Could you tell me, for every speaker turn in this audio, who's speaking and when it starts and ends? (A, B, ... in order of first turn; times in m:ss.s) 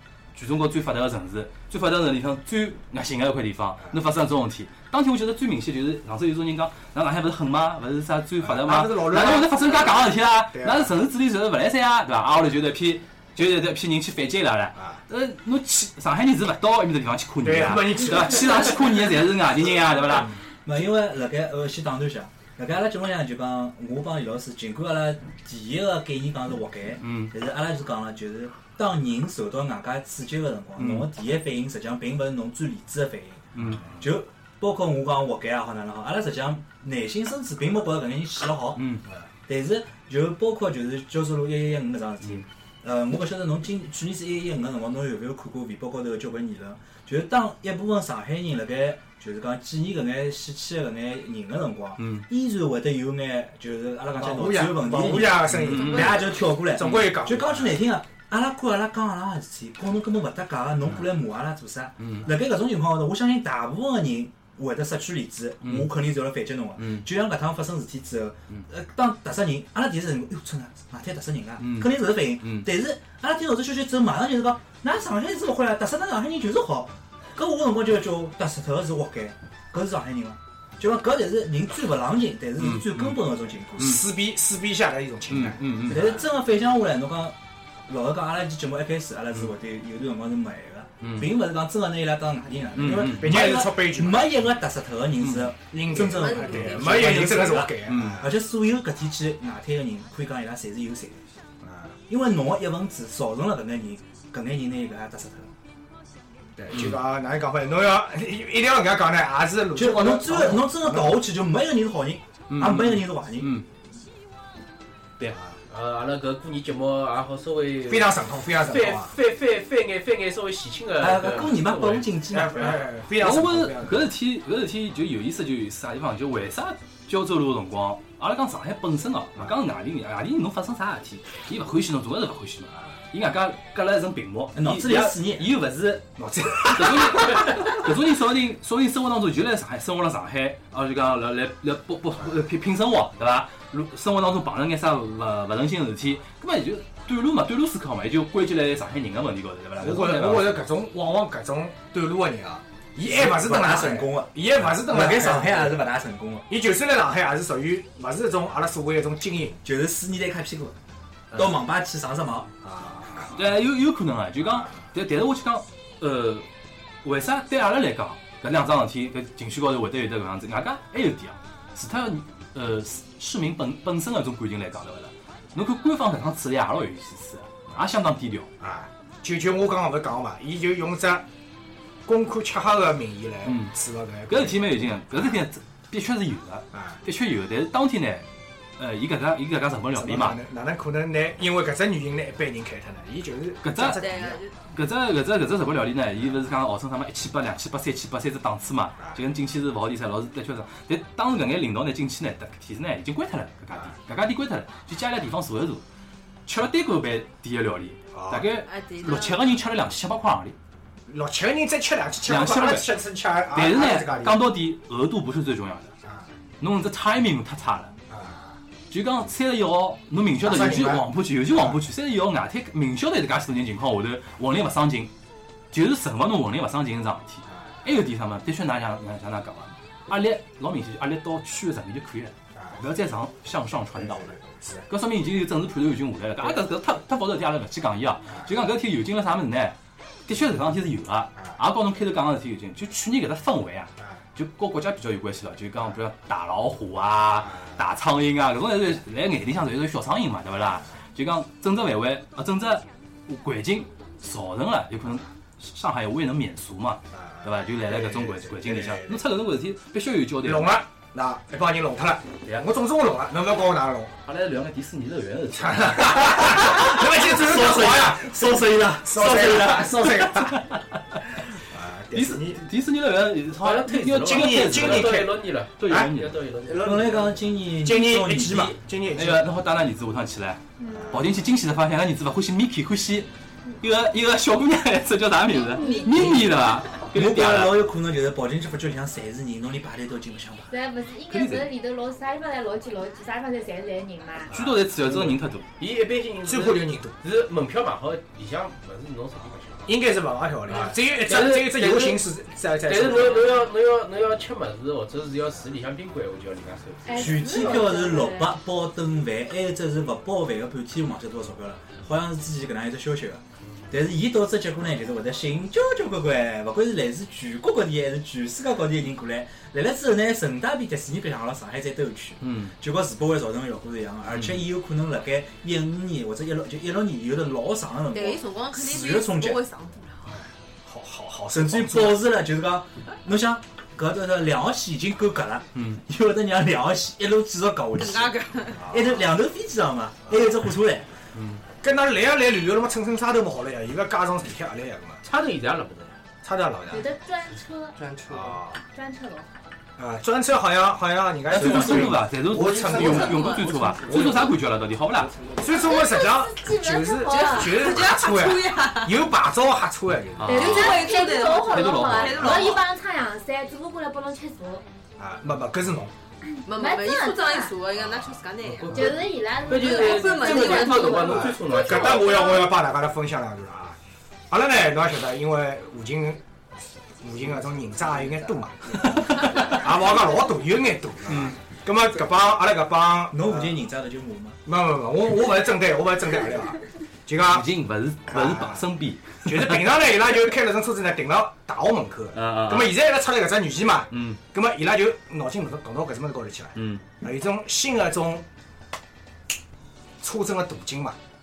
0:00.3-0:20.4 A
0:08.4-0:10.9 B
0:17.4-0:18.8 B
0:20.6-0:38.9 C
0:27.0-0:27.3 A
0:30.8-0:31.1 A
0:33.5-0:33.8 A
0:38.8-0:39.0 A
0:39.5-1:24.0 C
0:52.0-0:52.2 A
0:54.2-0:57.8 B
0:55.5-0:56.2 A
0:56.8-0:57.1 A
1:02.0-1:02.3 A
1:05.6-1:05.9 A
1:06.8-1:07.0 A
1:11.6-1:12.6 A
1:22.6-1:23.2 A
1:23.8-1:26.2 B
1:25.3-1:26.0 A
1:25.8-1:27.4 C
1:27.9-1:41.2 C
1:31.0-1:31.3 A
1:32.8-1:33.5 A
1:33.0-1:34.4 B
1:35.2-1:35.5 A
1:35.7-1:38.3 B
1:36.0-1:37.2 D
1:37.8-1:38.2 A
1:41.6-1:41.9 B
1:42.1-1:45.5 C
1:46.6-1:51.2 B
1:49.7-1:53.6 C
1:52.5-1:53.6 A
1:55.3-1:55.6 B
1:55.7-2:02.1 E
1:57.9-1:59.1 B
2:01.0-2:02.8 C
2:02.3-2:04.1 B
2:03.2-2:16.1 A
2:14.5-2:15.5 C
2:16.2-2:17.7 B
2:16.6-2:30.6 A
2:29.8-2:35.8 B
2:33.0-2:36.4 C
2:36.5-2:39.6 B
2:39.6-2:40.7 C
2:41.3-2:42.5 C
2:42.6-2:43.4 B
2:43.3-2:46.5 A
2:47.0-2:58.5 A
2:58.6-3:01.2 B
3:02.0-3:05.4 B
3:03.4-3:03.7 A
3:04.3-3:08.2 A
3:06.7-3:07.0 B
3:08.8-3:10.4 A
3:09.9-3:14.4 B
3:13.6-3:14.0 A
3:14.0-3:14.5 D
3:14.7-3:25.8 A
3:26.4-3:30.6 A
3:28.1-3:28.5 B
3:28.6-3:29.5 D
3:31.1-3:34.4 B
3:32.2-3:32.9 A
3:33.5-3:35.9 A
3:36.6-3:37.9 A
3:38.1-3:38.6 B
3:38.9-3:45.1 A
3:40.4-3:41.8 B
3:45.7-3:59.8 A
3:54.0-3:54.8 B
4:00.3-4:20.8 A
4:07.5-4:07.7 B
4:17.2-4:19.2 B
4:20.4-4:24.1 B
4:24.2-4:26.9 A
4:25.5-4:28.4 B
4:27.5-4:28.1 A
4:27.6-4:29.0 C
4:29.0-4:30.6 B
4:29.0-4:31.2 A
4:31.7-4:32.6 B
4:32.1-4:36.4 A
4:33.6-4:37.4 E
4:34.2-4:35.3 B
4:35.8-4:36.1 B
4:36.7-4:38.8 C
4:37.8-4:39.5 B
4:39.1-4:43.3 A
4:40.8-4:41.2 F
4:41.0-4:41.2 B
4:43.8-4:47.8 A
4:45.5-4:46.5 D
4:45.7-4:46.2 F
4:47.1-4:50.7 C
4:50.7-4:54.5 F
4:51.3-4:51.7 A
4:54.5-4:54.8 B
4:54.5-4:55.7 A
4:55.0-4:59.9 E
4:56.4-4:57.1 B
4:59.8-5:03.6 B
5:00.7-5:02.2 E
5:02.8-5:07.8 E
5:07.0-5:08.6 F
5:07.1-5:29.6 C
5:22.4-5:22.7 A
5:24.3-5:24.6 A
5:28.1-5:30.4 D
5:30.3-5:32.2 B
5:31.5-5:38.3 C
5:35.7-5:36.0 A
5:37.9-5:38.9 D
5:38.8-5:39.2 B
5:38.9-5:41.1 C
5:41.3-5:41.6 A
5:41.8-5:45.2 B
5:45.2-5:46.2 E
5:46.4-5:47.1 B
5:46.9-5:48.0 F
5:47.9-5:48.6 G
5:48.3-5:48.8 B
5:48.9-5:49.5 F
5:50.0-5:54.6 B
5:51.5-5:55.3 A
5:51.6-5:52.1 C
5:52.5-5:56.0 G
5:53.0-5:53.6 D
5:55.6-6:00.7 B
5:55.7-5:57.8 F
5:57.2-5:59.3 D
6:00.4-6:02.8 A
6:00.5-6:04.8 F
6:00.5-6:02.8 D
6:05.2-6:06.1 B
6:06.5-6:07.8 F
6:06.6-6:09.0 D
6:08.0-6:08.4 B
6:08.6-6:12.4 E
6:08.9-6:11.5 F
6:09.7-6:12.5 D
6:11.3-6:14.0 B
6:14.5-6:16.4 B
6:17.2-6:23.8 B
6:17.4-6:19.8 G
6:19.2-6:19.8 A
6:23.3-6:24.6 C
6:24.6-6:27.7 B
6:27.5-6:29.8 A
6:28.3-6:28.8 B
6:29.4-6:38.4 B
6:32.3-6:33.0 A
6:34.1-6:34.4 A
6:36.8-6:37.0 A
6:40.2-6:41.2 B